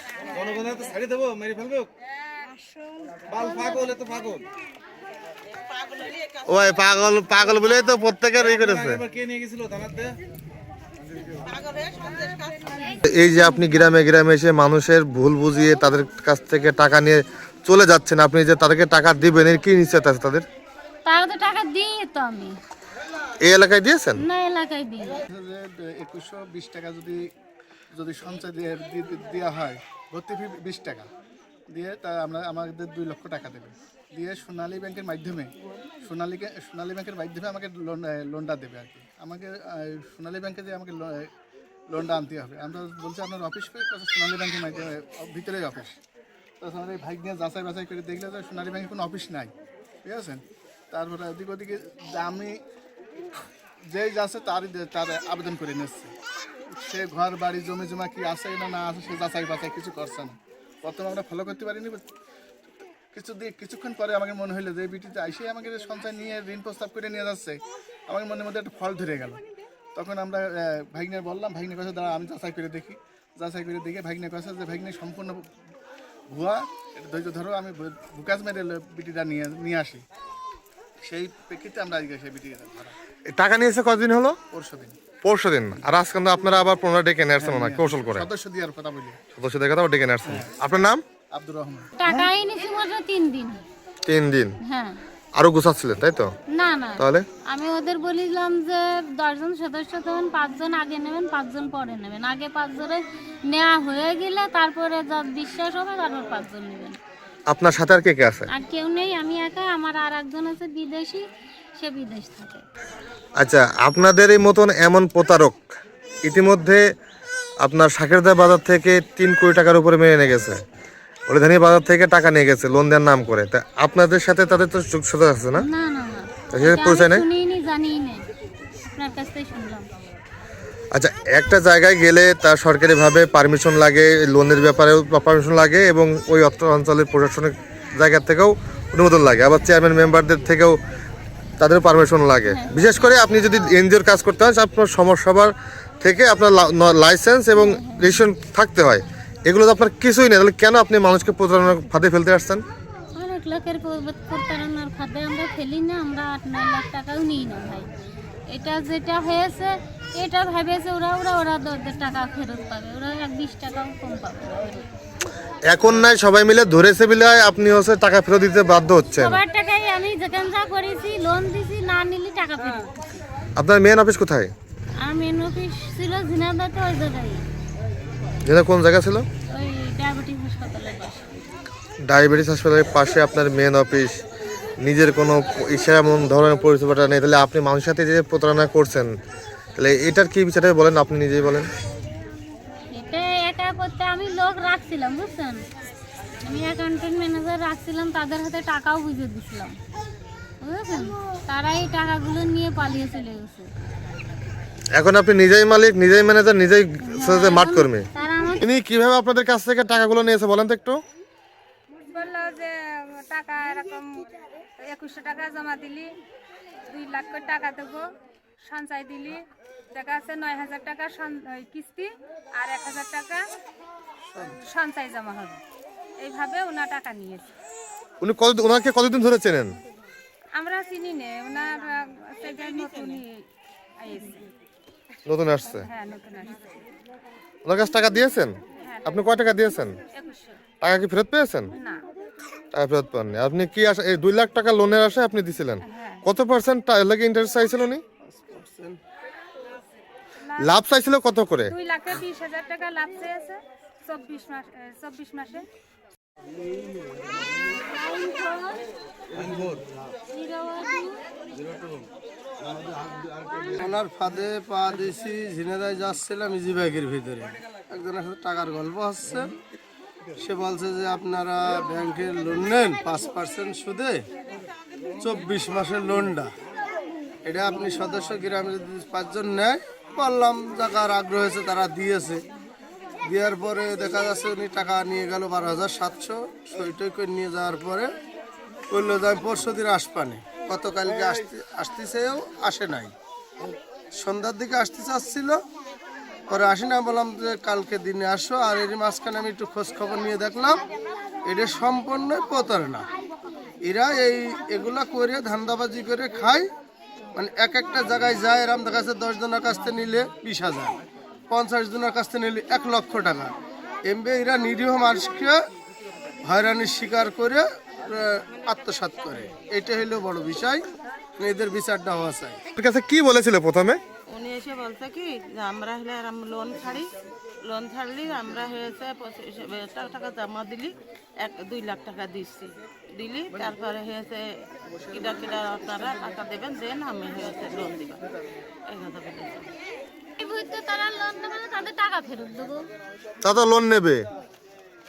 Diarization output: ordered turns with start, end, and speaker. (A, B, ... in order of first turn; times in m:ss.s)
0:00.3-0:01.9 A
0:03.3-0:04.4 A
0:06.4-0:09.0 B
0:08.4-0:10.2 A
0:11.6-0:12.5 C
0:13.0-0:20.4 B
0:21.0-0:22.5 D
0:23.4-0:24.2 B
0:24.2-0:25.2 D
0:25.3-0:27.2 E
0:27.9-0:31.0 E
0:31.7-0:35.5 E
0:36.0-0:41.3 E
0:41.9-0:46.0 E
0:46.6-0:49.5 E
0:50.0-0:52.5 E
0:53.9-0:56.1 E
0:56.7-1:02.0 E
1:03.1-1:07.6 E
1:08.1-1:09.4 E
1:09.9-1:15.4 E
1:16.3-1:20.0 E
1:21.0-1:22.9 E
1:23.3-1:24.4 B
1:24.5-1:25.0 E
1:25.2-1:28.2 B
1:27.4-1:29.2 E
1:29.3-1:31.0 B
1:30.3-1:30.5 E
1:31.3-1:32.3 E
1:32.0-1:33.6 D
1:34.0-1:34.6 B
1:34.6-1:35.0 D
1:35.4-1:36.3 B
1:36.5-1:47.0 D
1:37.0-1:37.2 B
1:47.5-1:48.5 B
1:48.5-1:51.2 D
1:51.8-1:52.6 D
1:53.4-1:55.6 B
1:56.2-1:56.8 B
1:57.6-2:00.6 B
2:01.3-2:05.6 B
2:05.5-2:08.2 D
2:06.5-2:07.2 B
2:08.8-2:09.8 D
2:10.9-2:20.8 B
2:21.6-2:32.6 B
2:22.5-2:22.7 D
2:27.6-2:28.2 D
2:33.1-2:37.9 D
2:38.5-2:44.8 D
2:45.7-2:49.4 B
2:49.2-2:52.9 D
2:53.6-2:54.5 B
2:55.0-2:57.4 D
2:58.4-2:59.2 B
2:59.5-3:01.5 D
3:02.0-3:04.2 B
3:04.8-3:09.1 B
3:09.8-3:11.7 B
3:12.9-3:15.6 D
3:16.4-3:19.7 D
3:20.6-3:23.7 D
3:24.9-3:28.1 B
3:27.1-3:28.6 D
3:28.6-3:31.0 B
3:32.1-3:36.1 F
3:36.9-3:38.0 F
3:38.6-3:43.4 F
3:44.3-3:44.6 G
3:44.6-3:45.6 F
3:46.2-3:47.5 F
3:48.2-3:49.8 B
3:50.5-3:53.4 F
3:54.0-3:54.5 F
3:55.2-3:55.9 B
3:55.9-3:56.8 F
3:57.6-4:00.0 B
3:58.8-3:59.3 F
4:00.1-4:00.6 F
4:00.8-4:01.7 B
4:01.7-4:02.0 F
4:02.7-4:08.0 B
4:05.8-4:06.2 F
4:08.2-4:09.0 G
4:10.4-4:10.7 F
4:10.6-4:11.7 B
4:11.7-4:15.6 F
4:17.8-4:18.8 D
4:19.3-4:19.8 A
4:20.3-4:21.2 D
4:22.7-4:29.5 G
4:30.4-4:34.2 G
4:35.2-4:36.5 G
4:37.4-4:42.4 G
4:43.2-4:48.1 G
4:48.9-4:53.1 G
4:54.1-4:55.6 G
4:56.5-5:00.8 G
5:01.4-5:03.0 G
5:03.8-5:06.7 G
5:07.3-5:11.0 G
5:11.5-5:13.5 G
5:14.0-5:15.6 G
5:16.4-5:20.8 G
5:21.4-5:22.6 G
5:22.7-5:24.0 B
5:24.3-5:27.1 C
5:27.6-5:34.4 C
5:35.1-5:38.2 C
5:38.9-5:39.7 C
5:40.4-5:42.8 D
5:43.4-5:44.2 B